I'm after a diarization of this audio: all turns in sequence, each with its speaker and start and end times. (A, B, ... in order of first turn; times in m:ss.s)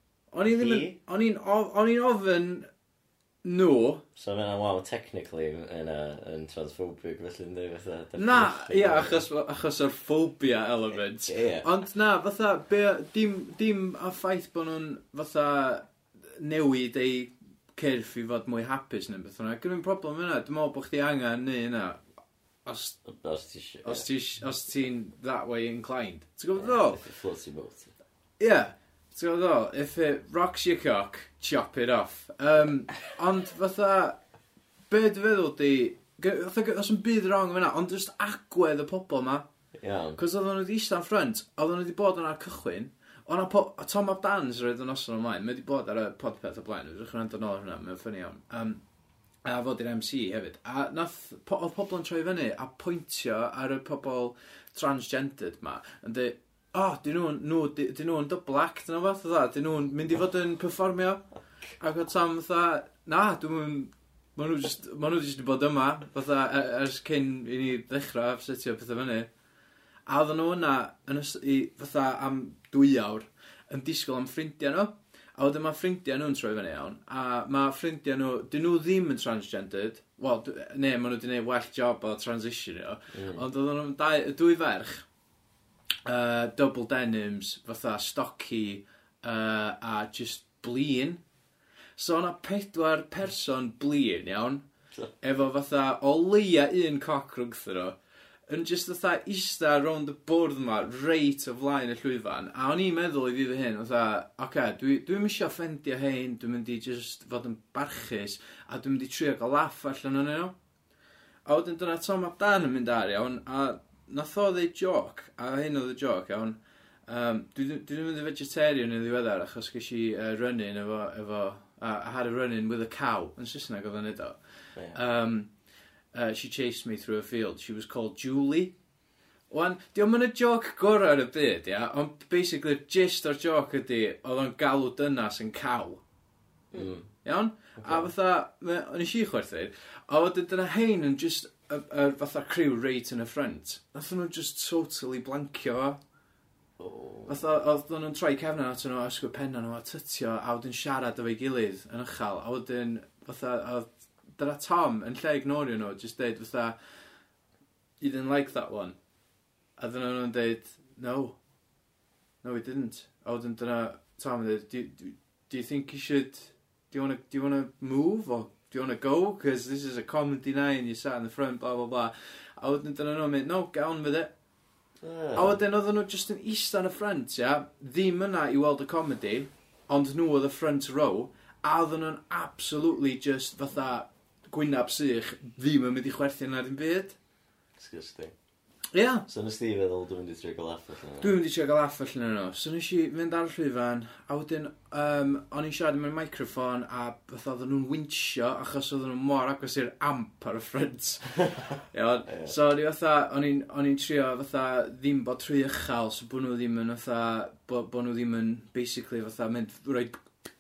0:00.3-0:02.7 A
0:00.4-0:01.0 B
0:03.4-0:04.0 A
0:04.2-0:09.2 B
0:08.2-0:22.0 A
0:11.3-0:11.7 B
0:22.6-0:23.0 A
0:23.0-0:24.1 B
0:23.8-0:27.0 A
0:26.6-0:27.9 B
0:28.4-0:34.2 A
0:34.9-0:39.4 A
0:39.8-0:40.2 B
0:40.2-0:48.8 A
0:49.4-1:01.2 A
1:01.8-1:09.3 A
1:10.0-1:25.0 A
1:23.1-1:23.4 B
1:26.0-1:31.2 A
1:32.0-1:34.6 A
1:35.2-1:38.0 A
1:38.5-1:50.6 A
1:51.4-2:04.4 A
2:04.9-2:05.5 A
2:06.1-2:08.7 A
2:09.5-2:16.0 A
2:16.7-2:17.1 B
2:17.2-2:26.0 A
2:17.8-2:18.1 B
2:26.8-2:27.5 B
2:27.3-2:36.8 A
2:38.0-2:39.0 A
2:39.8-2:41.4 A
2:42.4-2:54.3 A
2:55.0-2:55.6 B
2:55.3-3:07.2 A
3:07.8-3:08.3 B
3:08.9-3:09.2 A
3:09.3-3:11.4 B
3:11.2-3:30.2 A
3:22.3-3:22.6 B